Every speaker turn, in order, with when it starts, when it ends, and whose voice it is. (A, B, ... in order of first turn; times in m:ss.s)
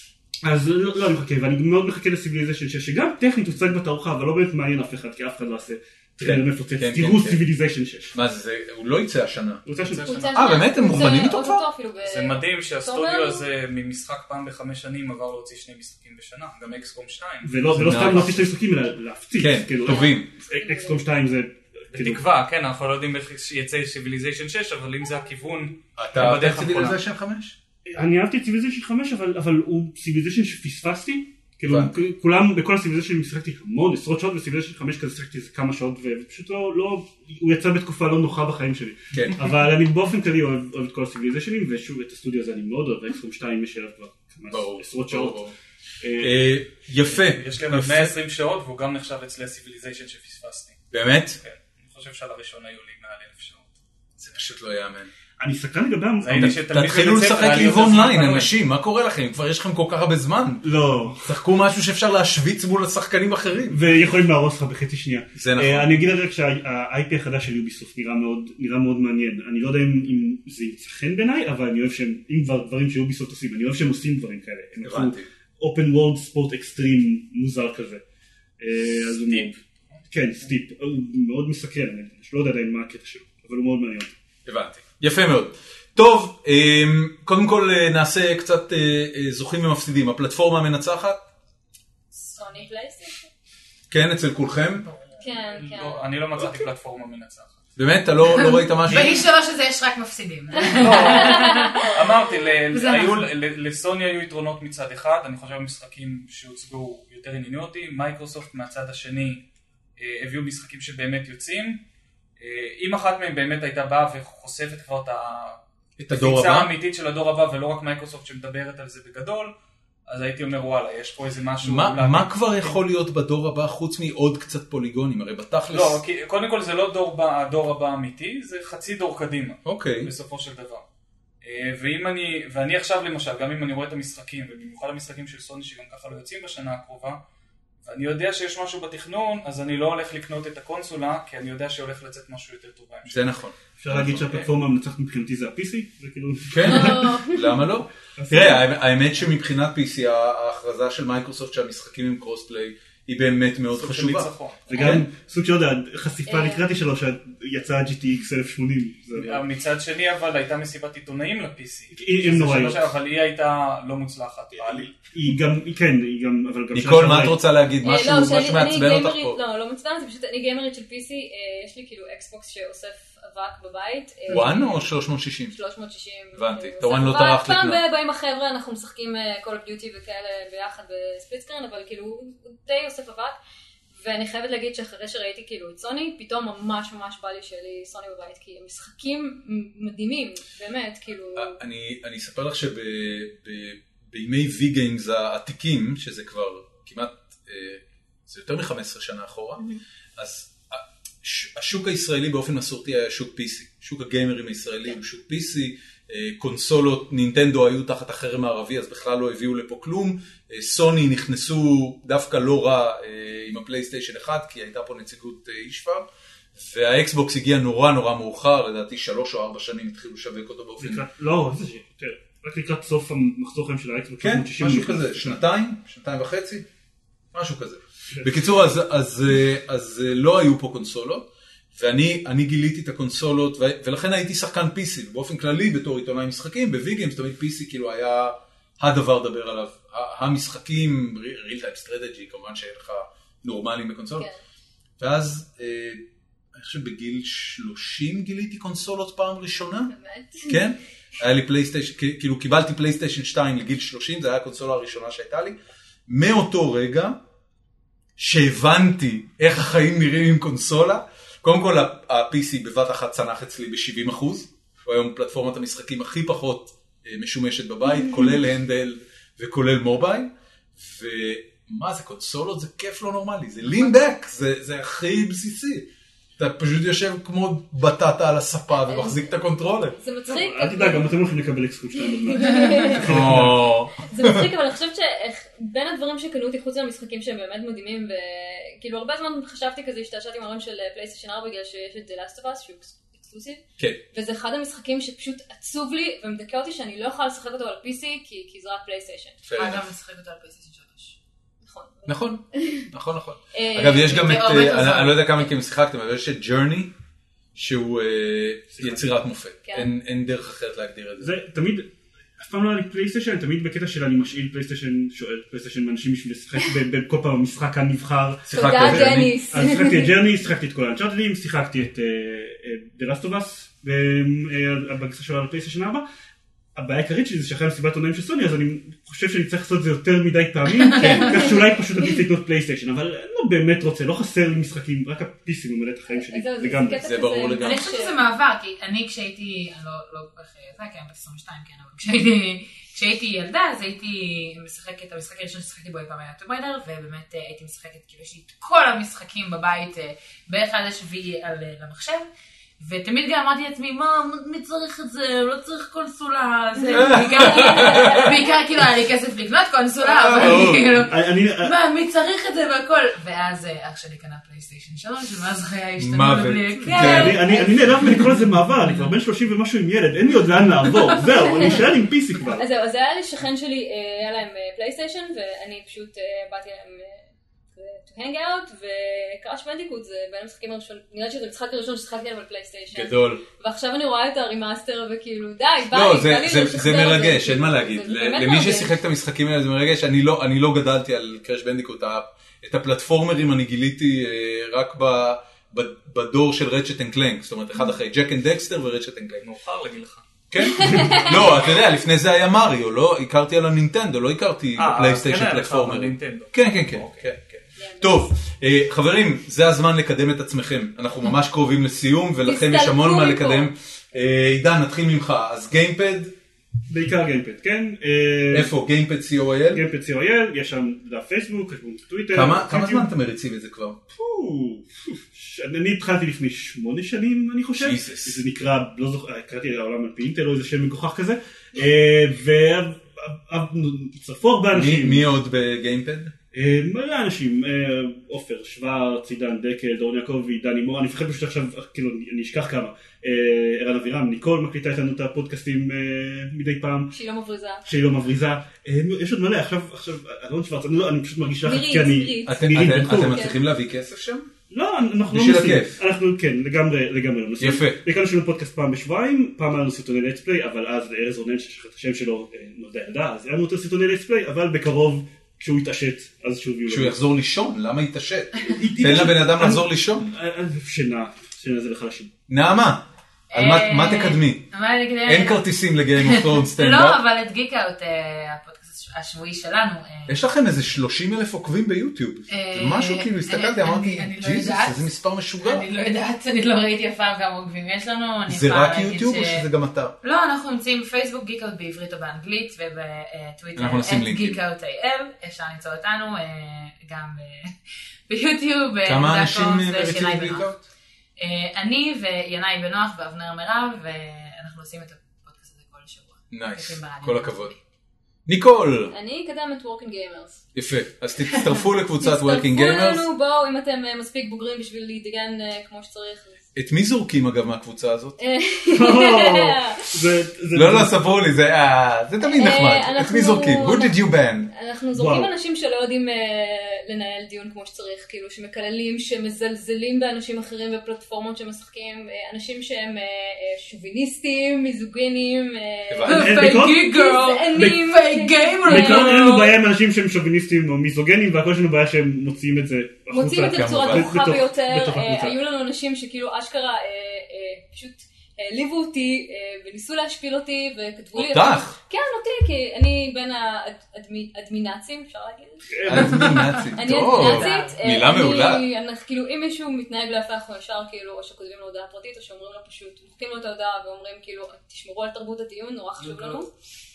0:00.4-0:08.1 A
0:06.2-0:07.4 B
0:08.1-0:09.6 B
0:09.6-0:10.3 A
0:09.8-0:10.8 C
0:10.0-0:13.4 D
0:10.3-0:11.6 B
0:12.0-0:18.2 C
0:17.4-0:22.2 A
0:17.7-0:18.5 B
0:19.4-0:20.3 B
0:19.9-0:21.0 D
0:21.9-0:27.0 C
0:26.0-0:27.6 B
0:27.9-0:45.4 A
0:31.6-0:31.9 B
0:39.1-0:39.5 B
0:44.5-0:45.6 B
0:46.0-0:46.4 A
0:46.2-0:48.1 B
0:47.2-0:50.8 C
0:50.9-0:51.4 B
0:51.4-0:53.7 C
0:54.2-0:55.1 B
0:55.4-0:56.5 A
0:56.2-0:58.5 C
0:56.3-1:00.6 B
1:00.6-1:01.2 A
1:01.2-1:03.8 B
1:03.7-1:18.0 A
1:05.3-1:06.0 B
1:14.8-1:15.3 B
1:18.6-1:19.6 A
1:19.1-1:20.0 C
1:20.1-1:24.1 A
1:24.4-1:31.2 B
1:32.1-1:33.3 D
1:33.9-1:34.9 B
1:35.2-1:36.0 D
1:35.6-1:37.6 C
1:37.8-1:39.2 B
1:38.3-1:42.0 E
1:40.7-1:41.9 D
1:40.8-1:49.4 C
1:42.7-1:43.2 E
1:50.0-1:51.8 C
1:52.4-1:55.6 C
1:56.0-1:56.7 B
1:56.1-1:59.5 C
2:00.1-2:02.7 C
2:01.6-2:06.0 B
2:05.7-2:10.8 C
2:09.6-2:10.1 B
2:11.4-2:17.2 C
2:17.8-2:23.2 C
2:23.0-2:24.4 B
2:23.8-2:27.2 A
2:26.5-2:35.1 B
2:26.6-2:27.6 D
2:28.2-2:28.6 A
2:33.7-2:34.9 C
2:34.7-2:39.4 A
2:36.3-2:36.6 D
2:39.2-2:44.9 C
2:41.9-2:42.9 A
2:44.6-2:47.4 A
2:46.7-2:49.4 B
2:47.8-2:54.9 D
2:54.3-2:55.6 B
2:55.5-3:03.4 D
2:56.3-2:57.8 B
3:03.9-3:11.6 D
3:11.4-3:19.6 B
3:20.2-3:41.0 B
3:40.8-3:45.4 A
3:44.2-3:46.6 B
3:47.3-4:04.3 B
4:05.0-4:06.0 B
4:06.5-4:09.9 B
4:09.9-4:10.6 D
4:10.4-4:17.2 B
4:18.2-4:35.9 B
4:28.0-4:28.3 D
4:36.4-4:40.0 B
4:38.8-4:39.3 D
4:40.0-4:41.1 D
4:40.3-4:43.7 A
4:42.1-4:59.4 D
4:43.0-4:44.4 B
4:59.4-4:59.9 B
4:59.6-5:01.2 E
5:01.6-5:02.9 D
5:02.1-5:06.9 B
5:03.5-5:04.5 D
5:04.0-5:05.2 E
5:07.5-5:11.3 B
5:08.7-5:09.0 A
5:11.2-5:26.0 A
5:18.5-5:19.3 B
5:18.5-5:20.1 D
5:26.7-5:37.1 A
5:31.0-5:31.5 B
5:31.0-5:31.3 E
5:31.1-5:31.4 D
5:36.2-5:38.2 D
5:37.0-5:37.9 B
5:37.6-5:52.3 E
5:52.8-6:08.3 E
5:56.9-5:58.3 B
6:00.0-6:00.9 B
6:00.5-6:01.7 A
6:06.0-6:07.4 B
6:06.9-6:12.6 A
6:06.9-6:07.2 D
6:12.5-6:28.9 D
6:22.9-6:23.4 B
6:25.9-6:39.4 B
6:39.4-6:40.3 C
6:40.5-6:56.3 B
6:40.6-6:41.3 D
6:44.8-6:47.2 C
6:47.8-6:48.3 D
6:52.4-6:53.7 D
6:56.9-6:58.7 A
6:58.5-6:59.8 B
6:59.7-7:03.0 A
7:02.3-7:04.0 B
7:04.1-7:15.2 A
7:07.8-7:08.4 B
7:14.7-7:16.3 B
7:16.5-7:27.1 A
7:27.1-7:27.8 D
7:27.8-7:33.4 A
7:31.6-7:33.6 D
7:32.4-7:34.5 B
7:34.7-7:47.2 A
7:35.3-7:36.0 B
7:37.6-7:38.0 B
7:46.9-7:50.3 B
7:48.7-7:52.3 A
7:52.5-7:54.7 B
7:53.5-7:55.6 E
7:55.2-7:57.2 B
7:56.2-8:00.4 E
8:00.3-8:05.8 B
8:02.5-8:09.6 E
8:08.5-8:10.1 B
8:10.2-8:17.7 E
8:13.8-8:14.6 B
8:18.3-8:20.8 E
8:19.0-8:20.8 B
8:21.4-8:27.8 E
8:26.5-8:27.7 B
8:28.4-8:29.1 B
8:29.1-8:30.6 D
8:30.7-8:33.3 B
8:32.2-8:36.7 D
8:36.7-8:38.4 B
8:38.4-8:40.2 D
8:38.9-8:41.3 A
8:40.7-8:44.7 B
8:42.4-8:59.6 D
8:45.1-8:45.5 A
8:56.1-8:56.5 B
8:56.2-8:59.7 E
8:56.3-8:57.1 A
8:58.8-9:05.6 A
9:03.3-9:26.7 D
9:03.6-9:04.5 B
9:11.3-9:12.0 B
9:15.9-9:16.8 A
9:16.1-9:18.8 B
9:16.3-9:18.0 E